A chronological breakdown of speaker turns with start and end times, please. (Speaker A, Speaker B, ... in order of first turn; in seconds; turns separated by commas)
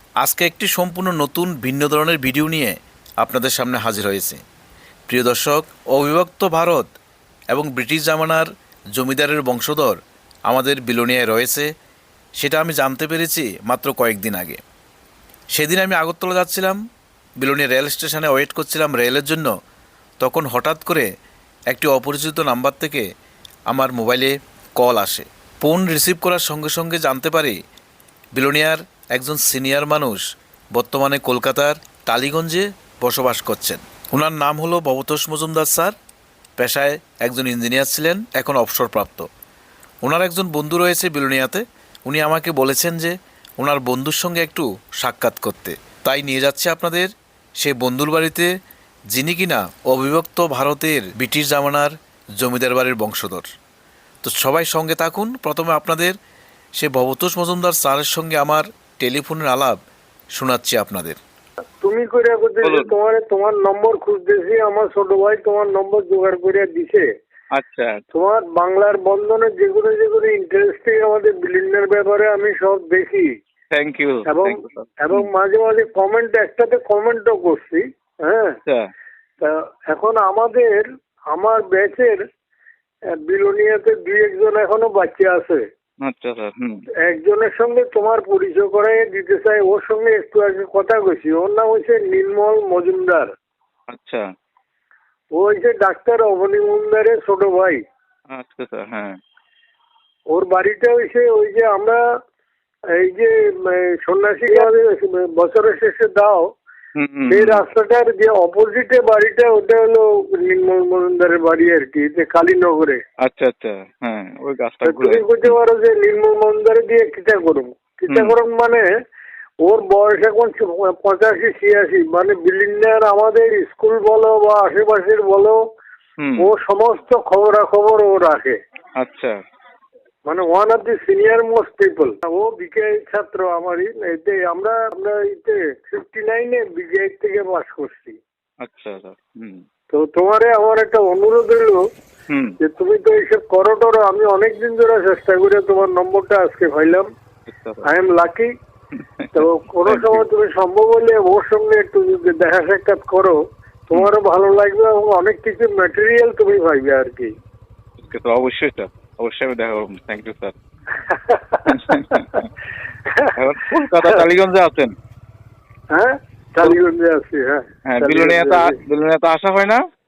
Speaker A: 0.2-4.4, Speaker A: 5.1-6.9, Speaker A: 7.5-11.7, Speaker A: 12.4-14.6, Speaker A: 15.5-16.8, Speaker A: 17.4-19.5, Speaker A: 20.2-21.1, Speaker A: 21.7-23.1, Speaker A: 23.7-27.6, Speaker A: 28.3-30.2, Speaker A: 30.7-35.9, Speaker A: 36.6-39.3, Speaker A: 40.0-48.5, Speaker A: 49.1-53.5, Speaker A: 54.2-56.2, Speaker A: 56.8-59.8, Speaker A: 60.3-61.2, Speaker B: 61.8-67.1, Speaker C: 62.6-62.9, Speaker C: 67.5-68.0, Speaker B: 68.1-73.4, Speaker C: 73.7-75.3, Speaker B: 74.3-78.6, Speaker B: 79.4-82.2, Speaker B: 83.1-85.7, Speaker C: 86.0-86.8, Speaker B: 87.0-93.3, Speaker C: 93.9-94.2, Speaker B: 95.3-97.8, Speaker C: 98.3-99.2, Speaker B: 100.3-102.0, Speaker B: 102.9-106.5, Speaker C: 107.0-107.6, Speaker B: 107.3-113.0, Speaker C: 113.2-115.6, Speaker B: 114.8-118.9, Speaker C: 118.1-118.3, Speaker B: 119.6-125.6, Speaker C: 126.2-126.5, Speaker B: 126.4-128.6, Speaker C: 129.0-129.3, Speaker B: 130.2-138.2, Speaker C: 138.6-139.6, Speaker B: 139.9-141.8, Speaker C: 142.3-142.5, Speaker B: 142.6-147.1, Speaker C: 147.5-147.8, Speaker B: 147.8-148.5, Speaker C: 148.9-150.2, Speaker B: 149.3-157.3, Speaker C: 158.0-160.6, Speaker B: 161.1-161.9, Speaker C: 161.7-162.5, Speaker C: 163.4-164.9, Speaker B: 165.9-168.8, Speaker C: 167.9-169.8